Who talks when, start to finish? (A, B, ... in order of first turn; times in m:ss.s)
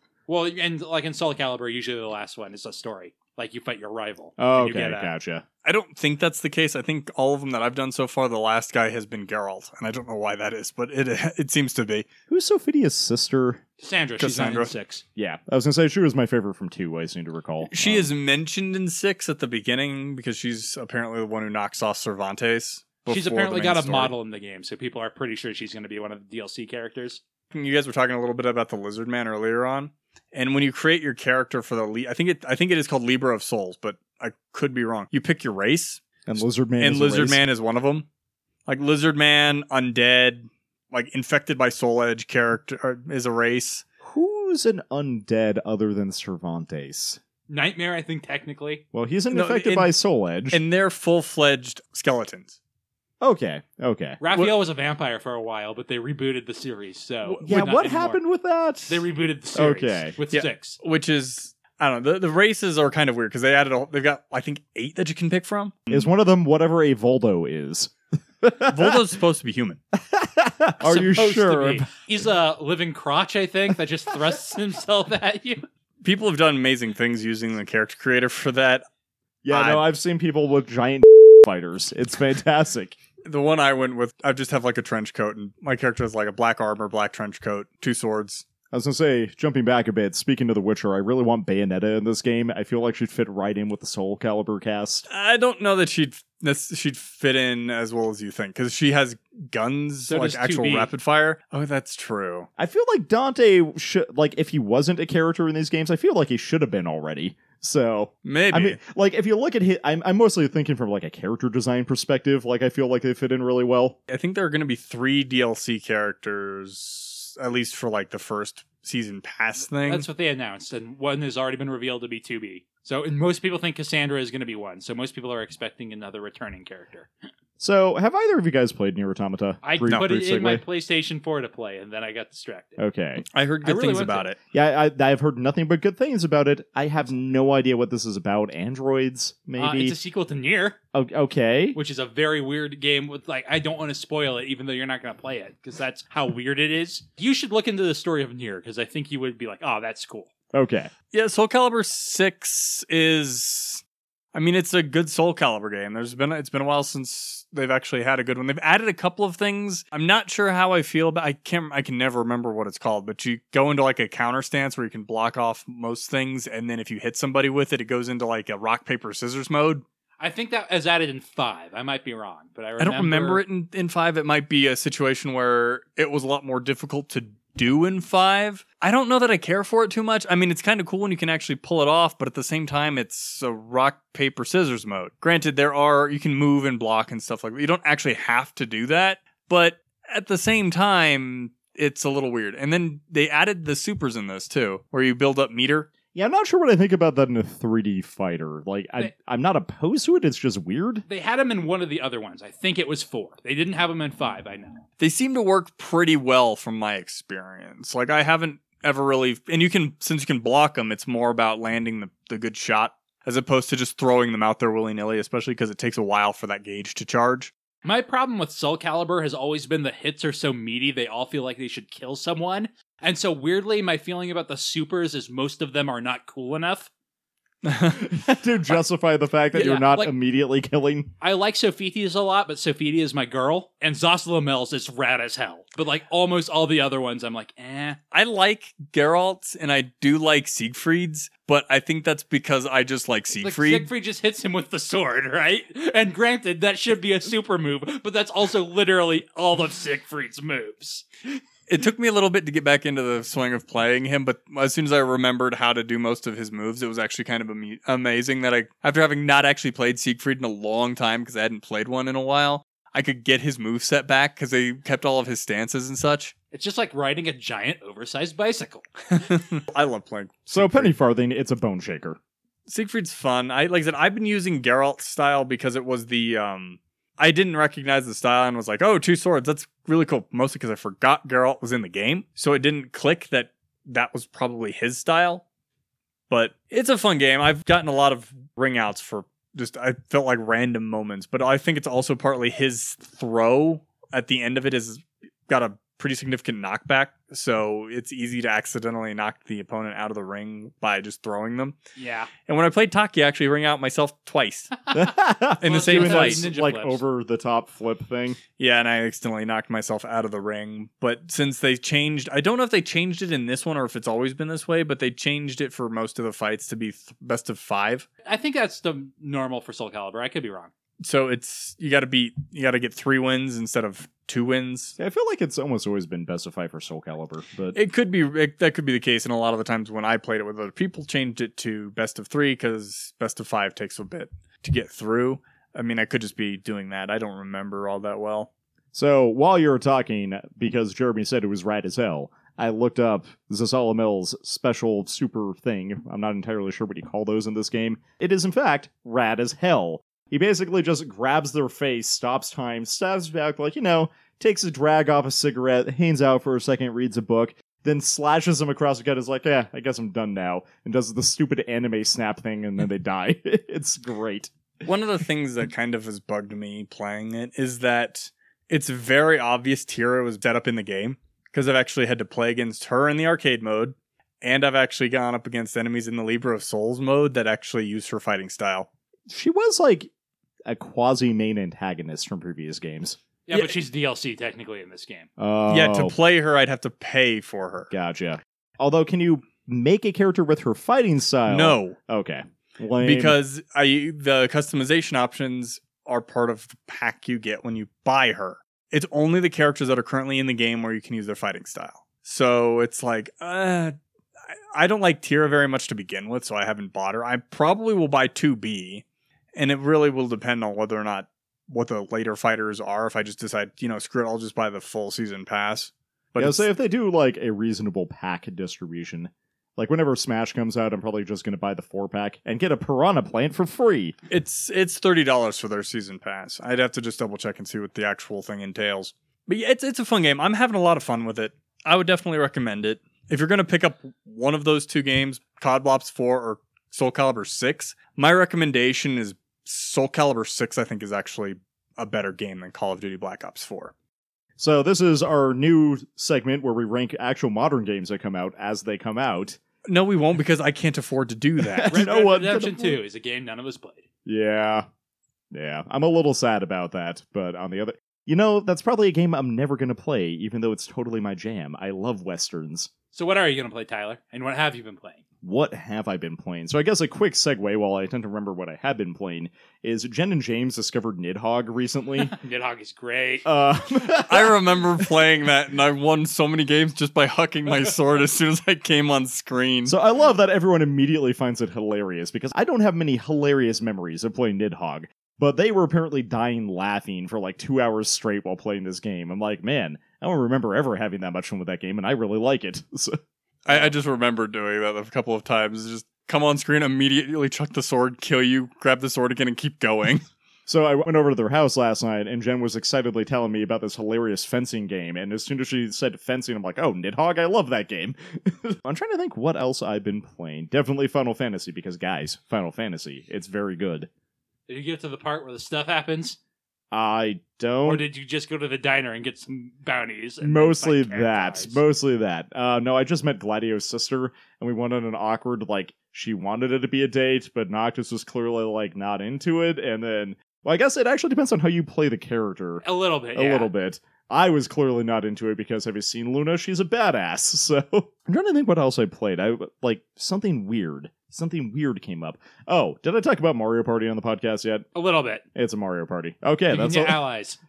0:00.3-0:05.1 A
0:04.4-0:05.4 B
0:05.6-0:12.1 C
0:12.3-0:13.6 B
0:13.8-0:15.0 A
0:14.2-0:14.7 C
0:15.2-0:18.1 B
0:17.7-0:24.1 C
0:23.1-0:27.2 A
0:27.5-0:38.1 C
0:36.2-0:37.4 B
0:38.7-0:43.8 C
0:44.0-0:47.2 B
0:47.5-0:48.8 A
0:48.9-0:50.6 B
0:49.3-0:49.9 C
0:50.5-0:52.6 C
0:53.2-0:54.2 B
0:54.2-0:58.2 A
0:57.4-1:00.2 B
0:58.9-1:00.8 A
1:00.3-1:06.1 C
1:05.9-1:09.0 B
1:08.6-1:09.8 C
1:09.9-1:11.9 B
1:10.8-1:15.7 A
1:16.0-1:18.8 C
1:19.4-1:23.0 B
1:19.5-1:19.8 C
1:23.2-1:28.4 C
1:28.7-1:35.0 B
1:35.1-1:42.5 C
1:40.1-1:40.9 A
1:42.6-1:54.0 B
1:48.2-1:48.8 C
1:54.1-2:00.1 C
1:59.8-2:07.1 A
2:07.6-2:10.6 B
2:09.6-2:12.8 A
2:12.8-2:13.2 B
2:13.2-2:14.4 C
2:13.6-2:14.3 A
2:14.5-2:20.0 B
2:19.6-2:20.8 A
2:20.9-2:21.8 B
2:21.7-2:30.3 A
2:30.5-2:30.9 B
2:31.1-2:33.8 C
2:34.3-2:49.8 C
2:50.2-2:53.4 A
2:52.8-3:15.9 C
3:16.1-3:21.0 B
3:21.1-3:24.8 A
3:25.0-3:37.5 C
3:37.8-3:46.9 A
3:47.6-3:48.1 C
3:48.0-3:51.1 B
3:49.5-3:50.1 A
3:51.2-3:58.0 A
3:58.1-4:03.9 C
4:03.4-4:11.4 A
4:11.7-4:26.3 C
4:26.5-4:29.2 A
4:29.2-4:30.9 C
4:30.5-4:32.2 B
4:32.7-4:45.4 C
4:46.3-5:01.8 C
5:02.0-5:02.3 A
5:02.4-5:04.8 C
5:04.9-5:08.4 B
5:05.6-5:06.5 C
5:05.6-5:07.0 A
5:08.6-5:18.1 C
5:18.2-5:20.7 A
5:21.0-5:25.0 C
5:25.0-5:27.8 B
5:27.7-5:38.5 C
5:38.9-6:04.5 B
6:04.8-6:18.9 C
6:19.3-6:20.1 B
6:20.7-6:23.2 B
6:23.5-6:25.3 A
6:25.4-6:26.2 B
6:25.7-6:27.9 C
6:27.9-6:33.4 B
6:31.5-6:32.0 C
6:33.0-6:44.0 C
6:44.7-6:49.0 C
6:49.5-6:56.7 C
6:56.4-7:04.2 B
7:04.3-7:23.9 C
7:24.6-7:29.6 B
7:29.8-7:32.0 C
7:31.6-7:33.0 B
7:31.9-7:34.0 A
7:34.2-7:34.9 B
7:35.5-7:42.9 B
7:43.1-7:45.2 A
7:45.4-7:52.3 B
7:52.2-7:53.5 A
7:53.4-7:55.0 B
7:54.2-8:00.0 C
7:59.8-8:13.2 B
8:13.6-8:20.2 C
8:20.7-8:34.1 B
8:34.7-8:36.4 A
8:36.9-8:38.0 B
8:37.8-8:41.8 A
8:40.4-8:52.8 B
8:52.8-8:53.7 A
8:53.3-9:04.9 B
9:05.0-9:05.4 A
9:05.5-9:07.2 B
9:06.7-9:07.6 A